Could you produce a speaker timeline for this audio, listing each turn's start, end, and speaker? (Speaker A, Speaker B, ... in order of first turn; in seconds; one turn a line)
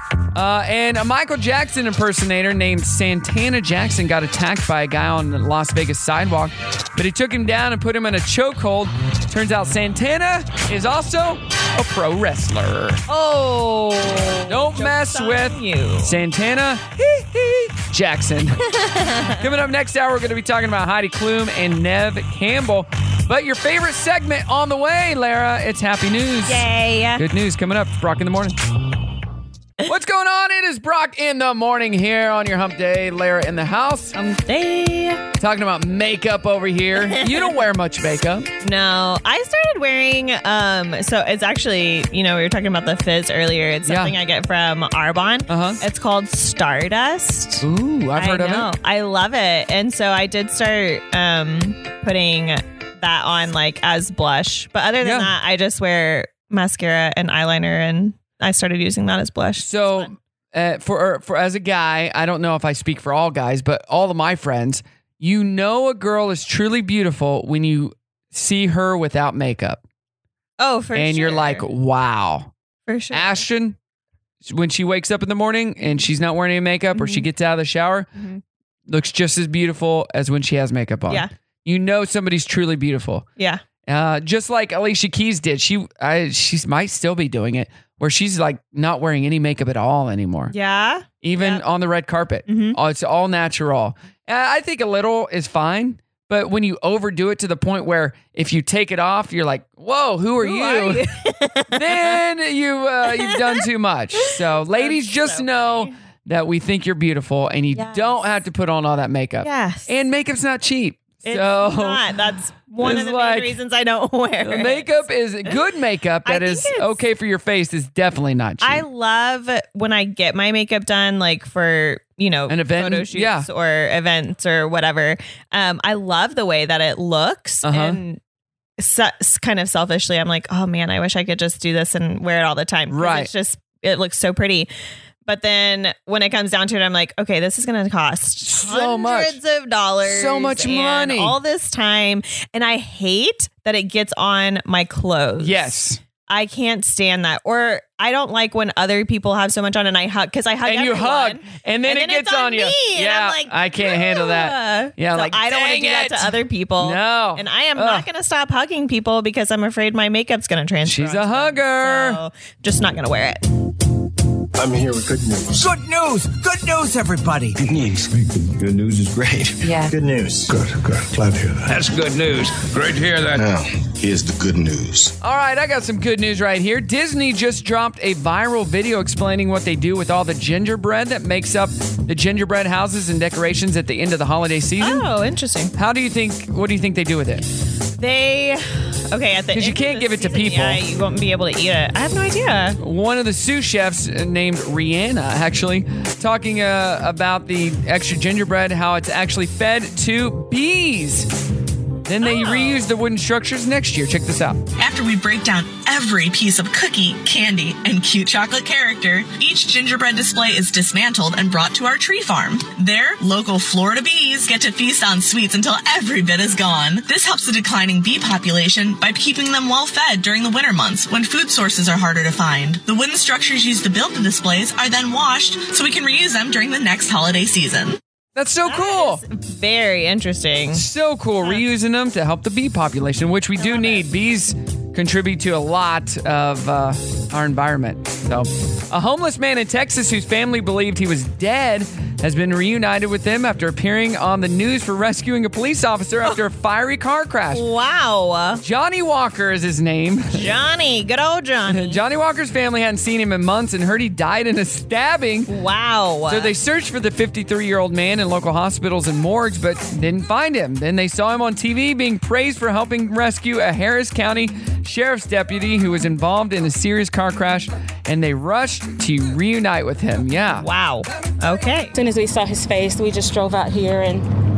Speaker A: 0.3-13.0
Speaker B: 13.1-16.2
Speaker A: 14.5-18.6
Speaker B: 18.7-19.4
Speaker A: 19.3-26.6
Speaker B: 26.5-27.2
Speaker A: 27.2-28.6
Speaker A: 29.9-34.2
Speaker B: 34.1-35.2
Speaker A: 35.4-38.5
Speaker B: 37.0-37.6
Speaker B: 38.6-47.6
Speaker A: 43.9-44.1
Speaker A: 45.5-45.8
Speaker A: 47.6-48.7
Speaker B: 48.2-60.1
Speaker A: 55.0-55.3
Speaker A: 59.6-69.8
Speaker B: 70.6-71.6
Speaker A: 71.0-72.5
Speaker B: 72.9-73.5
Speaker A: 73.1-73.8
Speaker A: 74.5-78.1
Speaker B: 76.9-77.3
Speaker B: 78.2-78.4
Speaker A: 78.9-83.3
Speaker A: 83.9-90.5
Speaker B: 90.5-91.6
Speaker A: 91.2-101.0
Speaker B: 92.5-92.8
Speaker B: 100.4-102.2
Speaker A: 101.7-112.0
Speaker B: 103.0-103.7
Speaker B: 104.2-105.9
Speaker B: 107.8-108.3
Speaker B: 109.4-109.9
Speaker B: 111.2-115.5
Speaker A: 112.8-113.5
Speaker A: 114.4-118.8
Speaker B: 116.3-117.0
Speaker B: 118.6-128.2
Speaker A: 122.5-123.5
Speaker A: 127.6-128.0
Speaker B: 128.8-134.7
Speaker A: 132.9-133.3
Speaker B: 135.3-163.4
Speaker A: 138.4-139.4
Speaker A: 140.0-141.4
Speaker A: 145.4-146.0
Speaker A: 150.7-158.1
Speaker A: 160.9-162.2
Speaker C: 165.6-167.6
Speaker A: 175.2-185.1
Speaker B: 184.8-185.7
Speaker A: 185.8-187.4
Speaker B: 188.0-192.8
Speaker A: 189.5-190.8
Speaker A: 192.8-201.3
Speaker A: 202.1-204.6
Speaker B: 202.2-202.8
Speaker D: 204.8-228.0
Speaker A: 228.4-229.2
Speaker B: 228.7-230.8
Speaker A: 230.7-247.6
Speaker B: 233.6-234.1
Speaker B: 247.5-248.6
Speaker A: 248.6-250.4
Speaker B: 250.3-252.0
Speaker A: 251.7-255.5
Speaker B: 255.5-256.5
Speaker A: 256.3-270.7
Speaker B: 270.6-271.9
Speaker E: 271.9-274.3